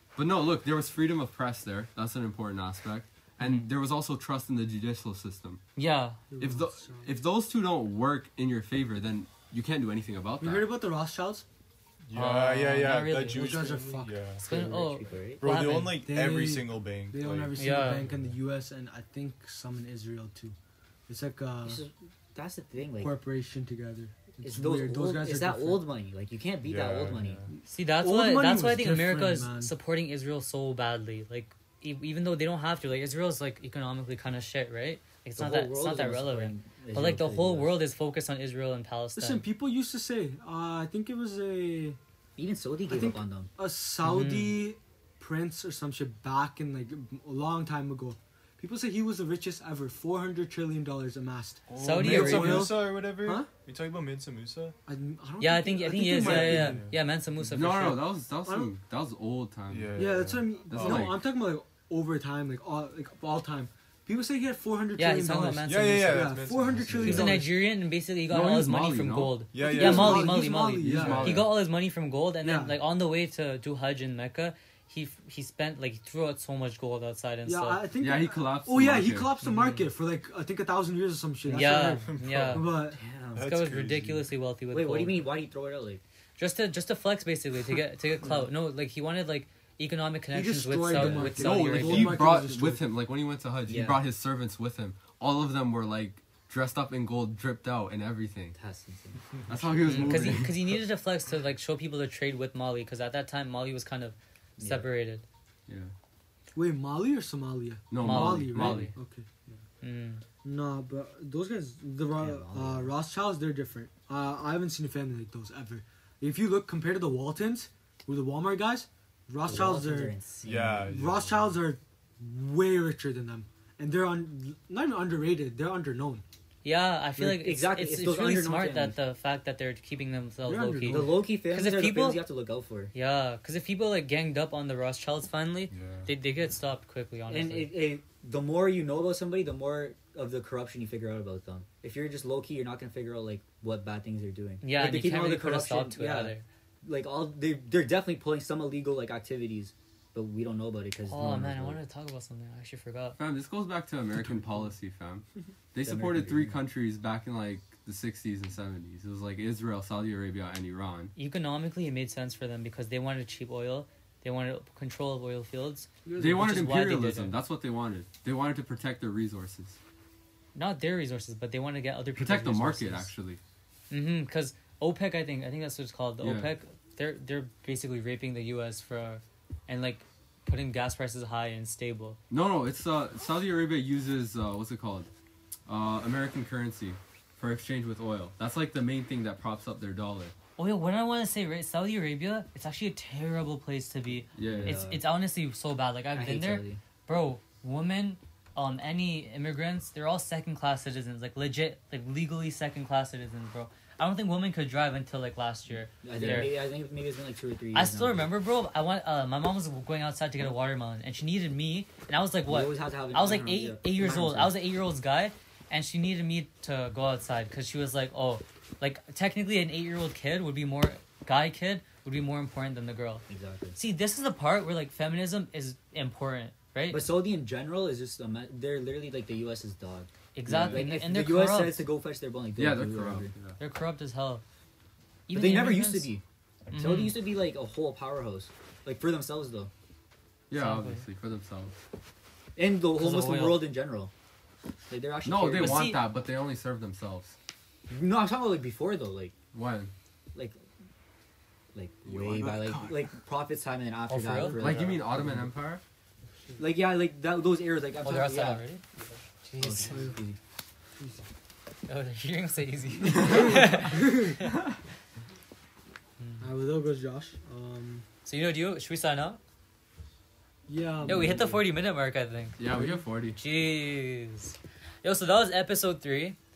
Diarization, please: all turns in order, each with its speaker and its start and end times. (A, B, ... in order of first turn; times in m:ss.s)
0:00.2-0:05.6 A
0:03.4-0:03.7 B
0:05.8-0:06.2 B
0:06.3-0:07.1 C
0:06.4-0:10.7 A
0:10.4-0:11.4 C
0:12.1-0:14.4 D
0:12.1-0:13.6 B
0:13.3-0:14.3 C
0:14.4-0:15.4 E
0:14.4-0:16.0 B
0:15.4-0:18.4 D
0:16.0-0:20.6 C
0:17.6-0:18.0 B
0:21.1-0:21.8 C
0:21.6-0:23.1 E
0:23.0-0:25.8 C
0:24.4-0:27.5 E
0:26.6-0:27.5 D
0:27.7-0:39.5 B
0:28.0-0:29.7 C
0:35.4-0:37.8 E
0:39.2-0:42.0 C
0:42.4-0:43.5 E
0:42.9-0:53.5 C
0:44.0-0:44.7 B
0:51.7-0:54.8 D
0:51.8-0:52.7 B
0:54.9-0:56.8 C
0:55.4-0:58.0 B
0:56.1-0:57.0 D
0:57.5-1:00.1 A
0:58.4-0:58.7 C
0:59.7-1:01.1 D
1:00.0-1:07.5 C
1:00.7-1:01.2 A
1:05.0-1:06.4 B
1:05.6-1:07.4 D
1:07.0-1:17.8 B
1:08.3-1:09.4 A
1:09.5-1:11.4 D
1:09.6-1:11.4 C
1:10.8-1:11.6 A
1:12.4-1:12.8 C
1:17.5-1:23.0 C
1:18.0-1:19.3 A
1:19.4-1:19.9 B
1:21.5-1:22.8 B
1:22.1-1:22.6 D
1:22.9-1:23.5 E
1:23.4-1:24.3 D
1:23.4-1:25.3 B
1:24.7-1:26.0 E
1:26.4-1:32.3 B
1:30.3-1:32.8 C
1:30.9-1:38.6 A
1:33.7-1:34.0 E
1:38.6-1:39.9 E
1:39.5-1:40.8 A
1:39.8-1:45.2 B
1:39.9-1:40.4 D
1:44.6-1:44.9 E
1:45.7-1:45.9 A
1:46.6-1:49.4 C
1:47.9-1:48.9 A
1:48.0-1:49.0 B
1:49.8-1:50.2 B
1:50.4-2:06.2 C
1:52.2-1:52.9 E
1:59.4-2:00.9 E
2:00.4-2:01.6 D
2:06.6-2:12.2 B
2:07.2-2:09.0 E
2:10.4-2:11.2 C
2:10.9-2:12.9 E
2:12.9-2:17.7 B
2:15.7-2:16.1 D
2:17.3-2:26.3 E
2:24.6-2:26.4 B
2:26.8-2:31.8 E
2:31.1-2:33.2 B
2:33.2-2:41.1 A
2:35.8-2:36.6 E
2:41.2-2:47.4 B
2:46.0-2:46.5 C
2:46.2-2:49.8 A
2:50.6-2:53.1 B
2:52.2-2:53.4 A
2:53.9-3:02.2 B
2:56.2-2:56.5 A
3:02.3-3:05.1 A
3:05.7-3:10.3 A
3:10.6-3:26.6 B
3:14.4-3:14.9 A
3:14.4-3:15.0 E
3:16.1-3:16.8 E
3:26.0-3:28.3 E
3:27.7-3:47.0 B
3:32.5-3:34.6 E
3:43.3-3:43.8 E
3:46.9-3:53.3 E
3:50.4-3:51.9 B
3:50.5-3:50.8 A
3:52.6-3:53.6 A
3:53.6-3:54.4 B
3:55.3-3:56.1 B
3:55.3-3:59.7 E
3:56.7-3:57.2 B
4:00.5-4:01.8 A
4:00.5-4:01.0 B
4:02.6-4:04.1 E
4:03.0-4:03.7 B
4:04.9-4:05.9 E
4:05.2-4:07.4 A
4:05.6-4:06.0 B
4:07.9-4:09.4 E
4:09.5-4:09.9 A
4:11.7-4:15.5 E
4:12.1-4:13.0 D
4:14.1-4:14.7 B
4:14.6-4:15.8 A
4:16.6-4:18.6 E
4:18.0-4:18.8 B
4:19.4-4:20.1 B
4:19.6-4:20.4 E
4:19.9-4:20.2 C
4:21.9-4:24.6 B
4:23.3-4:24.4 C
4:26.4-4:28.0 C
4:28.2-4:29.4 B
4:30.7-4:31.6 C
4:31.0-4:32.6 B
4:32.6-4:33.4 A
4:32.7-4:33.0 C
4:33.4-4:36.4 B